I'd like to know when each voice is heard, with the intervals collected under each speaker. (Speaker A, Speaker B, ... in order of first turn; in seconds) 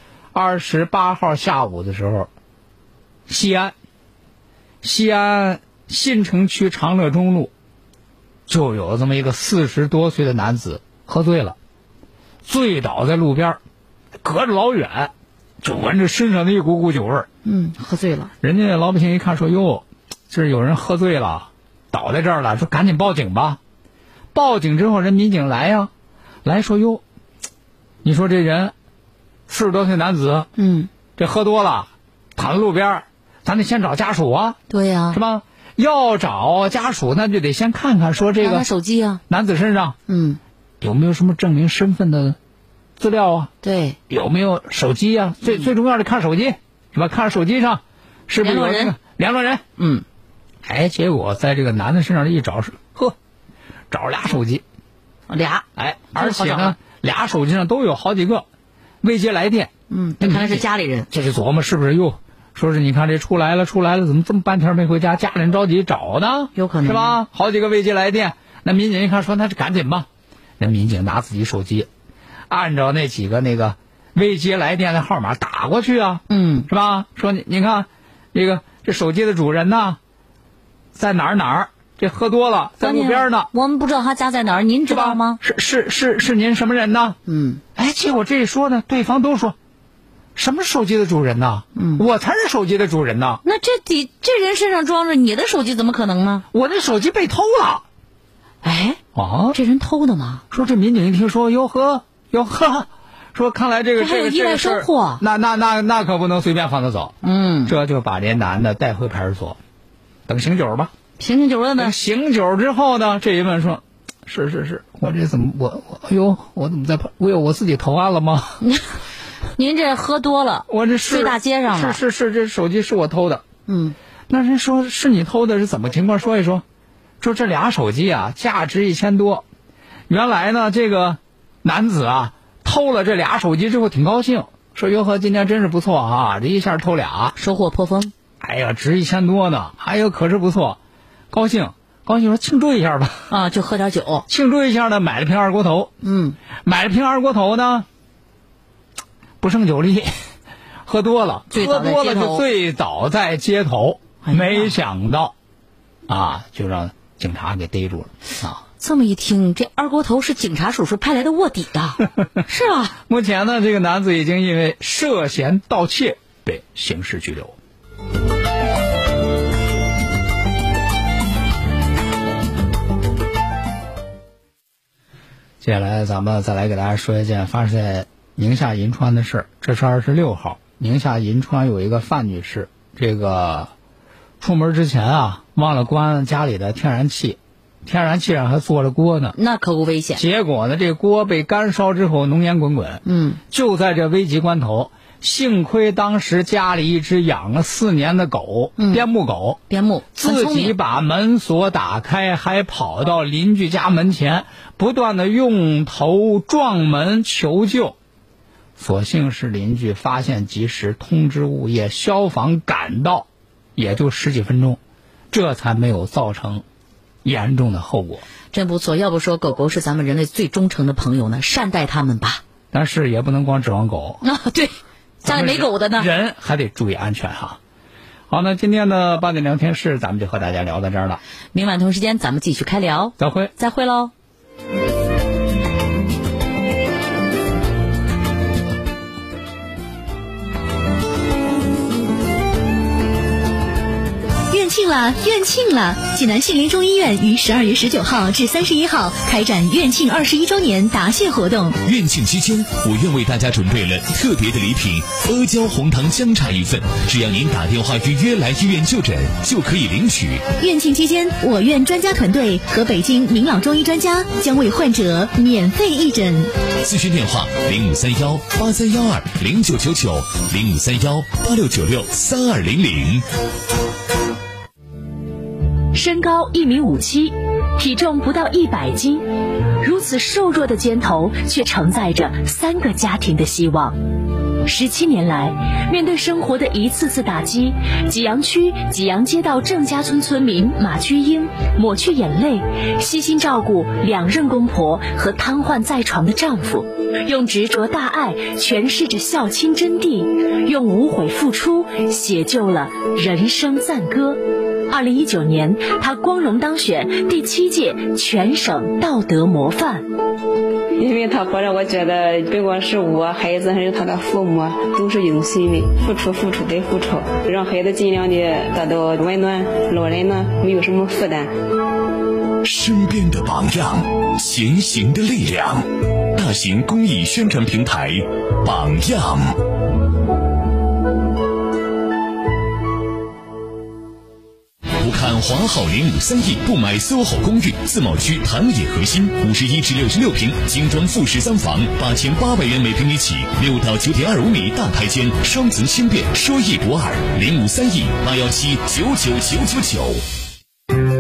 Speaker A: 0.3-2.3, 3.3-3.8, 4.8-7.5, 8.5-11.6, 12.4-13.6, 14.2-17.3, 18.4-23.6, 24.3-25.9, 26.4-27.0, 28.0-28.7, 29.5-30.5, 31.2-34.6, 35.1-38.7, 39.3-40.0, 40.8-42.4, 43.0-43.5, 44.1-49.6, 50.6-53.2, 53.9-54.6, 55.8-58.5, 59.0-70.1, 70.6-71.9, 72.5-80.0, 80.9-83.5, 84.9-87.2, 87.8-89.6, 90.4-93.4, 96.5-97.8, 99.2-99.6, 100.5-107.2, 107.7-109.6, 110.3-110.9, 111.8-118.6, 120.7-123.4, 124.3-126.6, 127.2-129.4, 130.1-137.3, 138.4-140.8, 141.3-143.3, 144.3-145.9, 146.6-147.9, 149.4-150.1, 150.9-155.3, 156.1-158.6, 163.1-167.6, 175.6-183.7, 184.4-189.4, 190.2-199.6, 200.2-208.0, 208.8-214.8, 215.3-216.7, 217.2-218.2, 222.7-224.2, 225.2-227.6, 228.3-231.2, 233.2-233.5
Speaker B: 17.4-18.3, 30.6-30.9, 34.7-35.2, 38.4-39.2, 40.1-40.4, 43.6-44.0, 48.4-49.0, 49.8-50.0, 55.3-56.8, 59.9-61.1, 66.5-67.2, 76.3-76.7, 82.8-85.4, 87.3-87.6, 91.8-92.0, 93.5-96.5, 98.6-99.0, 99.5-100.4, 104.0-105.2, 107.2-107.7, 111.2-112.0, 118.6-118.9, 119.6-122.0, 123.7-124.0, 137.4-138.1, 143.3-144.2, 146.0-146.4, 151.5-152.4, 154.2-154.8, 158.8-163.0, 189.3-190.2, 193.1-193.4, 198.8-199.1, 199.7-200.8, 218.5-222.4, 224.2-226.1, 231.5-234.1
Speaker C: 244.5-251.8, 260.6-266.5
Speaker D: 251.8-260.5, 266.8-273.3, 322.6-329.6, 335.0-350.2
Speaker E: 275.9-284.0, 284.5-310.1
Speaker F: 311.0-321.5